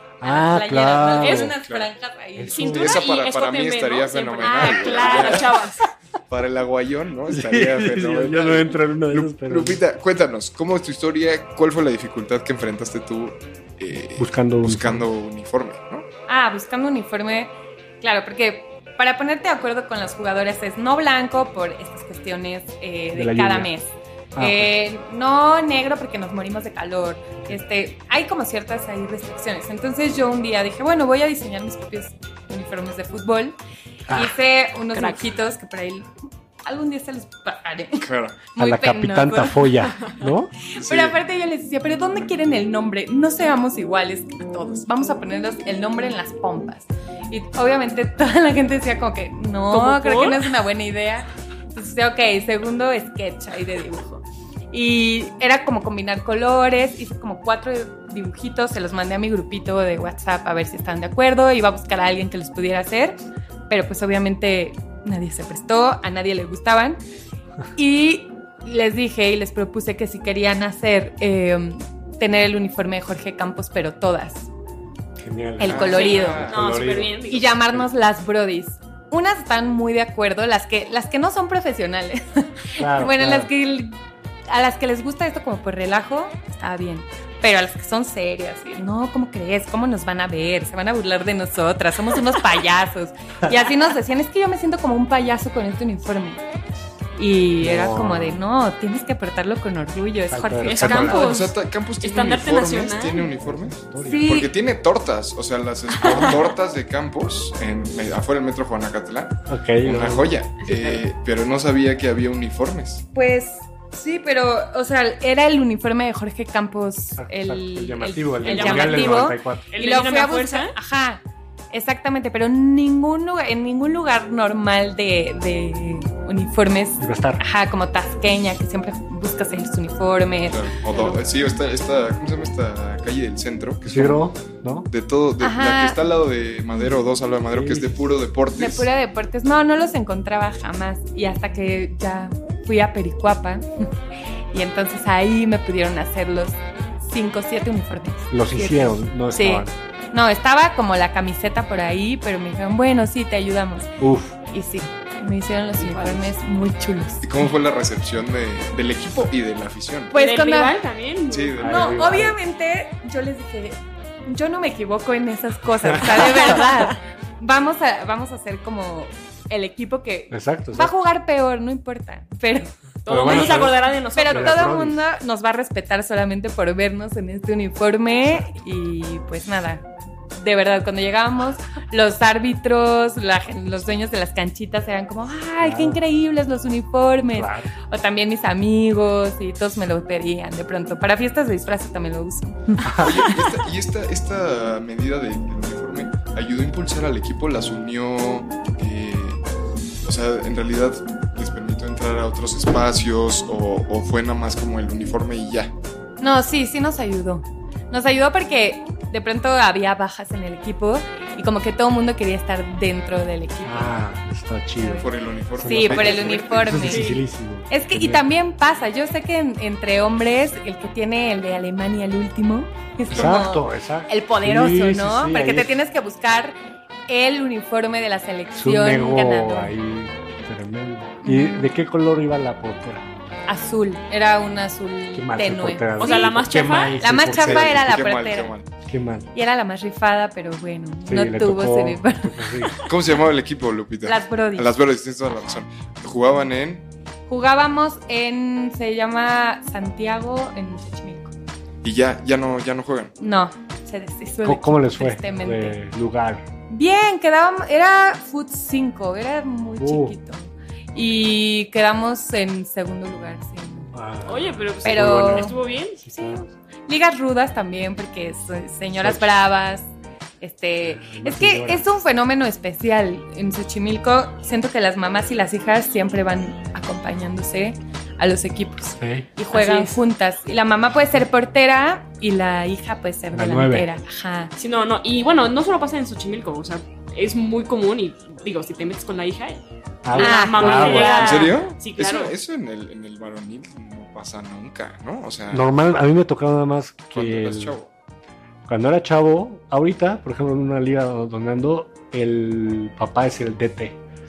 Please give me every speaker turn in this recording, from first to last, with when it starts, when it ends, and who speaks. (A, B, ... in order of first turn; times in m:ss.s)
0:00.2-0:01.6 A
0:00.2-0:03.0 B
0:01.2-0:01.6 C
0:01.6-0:01.9 D
0:02.4-0:03.0 A
0:02.5-0:05.8 C
0:02.7-0:05.5 D
0:04.4-0:05.5 B
0:06.3-0:16.1 D
0:07.3-0:09.8 A
0:14.2-0:15.1 A
0:16.3-0:33.6 B
0:23.1-0:23.7 A
0:24.4-0:24.8 A
0:34.1-0:34.4 A
0:34.1-0:36.1 B
0:34.9-0:35.2 C
0:36.7-0:39.7 B
0:38.0-0:38.4 D
0:38.6-0:40.5 A
0:40.6-1:07.0 B
0:40.8-0:41.2 D
0:49.7-0:50.5 C
1:07.8-1:14.5 B
1:15.2-1:17.9 A
1:15.6-1:16.4 B
1:15.6-1:16.6 D
1:15.9-1:17.4 C
1:17.2-1:24.0 B
1:22.8-1:23.5 A
1:24.5-1:36.4 B
1:37.2-1:41.2 B
1:37.6-1:38.4 A
1:40.3-1:41.4 A
1:40.6-1:43.3 C
1:41.0-1:53.0 D
1:43.3-1:44.3 A
1:44.0-1:44.5 B
1:46.1-1:46.4 A
1:49.5-1:50.4 A
1:50.6-1:51.0 C
1:53.1-2:10.7 B
1:57.2-1:59.7 A
1:58.4-2:00.7 C
2:07.0-2:07.4 A
2:10.5-2:14.3 D
2:10.9-2:11.2 C
2:13.8-2:14.9 A
2:14.9-2:18.9 D
2:15.4-2:16.0 B
2:17.5-2:18.0 A
2:18.5-2:23.6 B
2:24.5-2:33.9 B
2:28.3-2:29.7 A
2:34.0-2:34.4 A
2:34.5-2:37.5 B
2:35.8-2:36.3 C
2:37.2-2:40.1 D
2:40.1-2:40.8 B
2:40.1-2:41.6 C
2:41.3-2:42.2 D
2:41.6-2:42.4 A
2:41.6-3:13.4 B
2:45.8-2:46.7 A
2:50.3-2:50.9 A
2:53.0-2:54.7 C
2:53.1-2:55.0 A
3:05.6-3:06.0 A
3:07.3-3:07.7 A
3:12.8-3:13.3 A
3:13.0-3:19.4 D
3:20.0-3:25.7 D
3:26.2-3:34.0 B
3:33.6-3:38.3 A
3:34.8-3:37.1 B
3:35.0-3:37.0 D
3:36.7-3:37.2 C
3:37.7-3:46.6 B
3:43.1-3:43.5 D
3:43.1-3:45.8 A
3:47.1-3:49.7 B
3:48.6-3:53.1 A
3:51.2-3:51.7 B
3:53.5-3:56.3 B
3:55.1-3:58.0 A
3:56.0-3:57.0 C
3:57.0-3:58.6 B
3:57.3-3:58.7 D
3:58.9-3:59.3 A
3:59.3-4:02.8 B
4:01.1-4:02.8 A
4:02.9-4:06.8 D
4:04.0-4:04.7 B
4:07.3-4:11.3 B
4:11.8-4:13.1 D
4:13.2-4:15.8 B
4:14.4-4:16.4 A
4:16.7-4:23.9 B
4:19.8-4:20.2 A
4:23.9-4:26.5 A
4:24.3-4:26.0 C
4:24.8-4:25.6 B
4:26.2-4:29.9 B
4:28.9-4:29.4 A
4:30.4-4:44.5 B
4:30.8-4:31.9 A
4:39.0-4:39.3 A
4:39.5-4:40.0 C
4:43.3-4:43.9 A
4:44.6-4:52.4 C
4:50.0-4:51.6 A
4:50.2-4:51.5 B
4:51.2-4:55.7 D
4:55.5-4:57.8 A
4:57.1-4:57.9 D
4:58.7-5:04.0 A